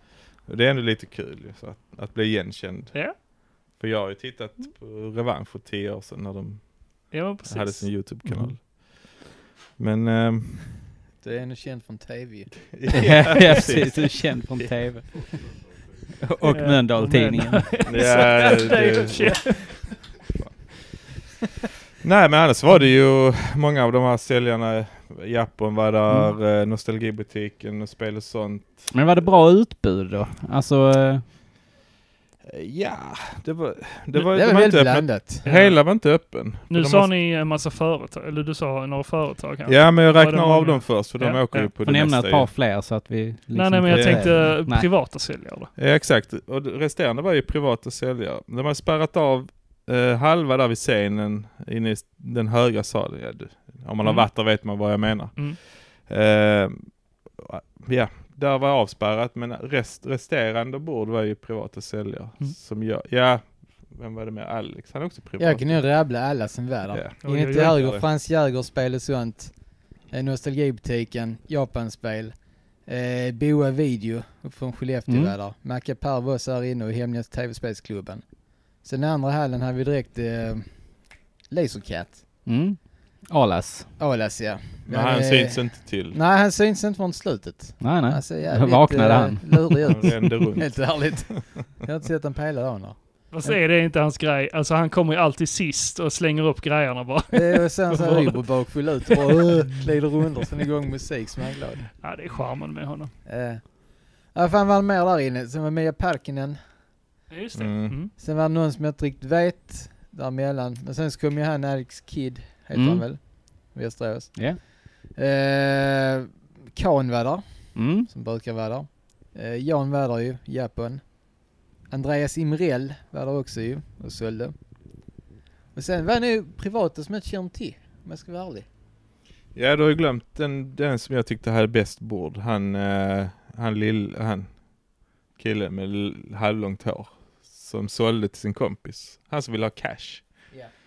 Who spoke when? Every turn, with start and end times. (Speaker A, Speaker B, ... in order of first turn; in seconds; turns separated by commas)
Speaker A: 0.4-3.0, Speaker A: 3.7-9.2, Speaker B: 7.1-8.4, Speaker A: 9.8-10.8, Speaker C: 11.2-12.5, Speaker A: 12.7-14.7, Speaker D: 12.9-15.5, Speaker D: 16.2-17.7, Speaker B: 16.5-20.0, Speaker A: 17.9-19.6, Speaker A: 22.0-29.3, Speaker D: 28.9-31.2, Speaker A: 32.5-37.1, Speaker C: 34.1-35.5, Speaker B: 35.5-35.8, Speaker B: 36.7-41.7, Speaker A: 39.7-42.5, Speaker D: 41.8-44.9, Speaker B: 43.5-45.7, Speaker A: 43.9-44.5, Speaker A: 45.8-65.9, Speaker B: 54.0-54.3, Speaker C: 65.4-69.5, Speaker A: 66.9-68.0, Speaker B: 67.2-67.8, Speaker C: 70.1-78.2, Speaker D: 75.1-75.3, Speaker C: 78.8-80.7, Speaker C: 81.5-82.2, Speaker D: 82.5-83.9, Speaker C: 84.0-93.0, Speaker A: 84.9-86.2, Speaker D: 87.8-89.8, Speaker A: 89.8-91.4, Speaker B: 93.3-98.3, Speaker C: 97.3-101.9, Speaker B: 102.0-103.1, Speaker C: 103.3-103.7, Speaker C: 104.3-106.6, Speaker B: 107.3-108.1, Speaker A: 107.5-108.0, Speaker C: 108.2-121.3, Speaker D: 112.7-113.0, Speaker D: 117.8-118.1, Speaker C: 121.9-124.5, Speaker C: 125.8-128.7, Speaker A: 129.6-134.5, Speaker A: 135.4-140.2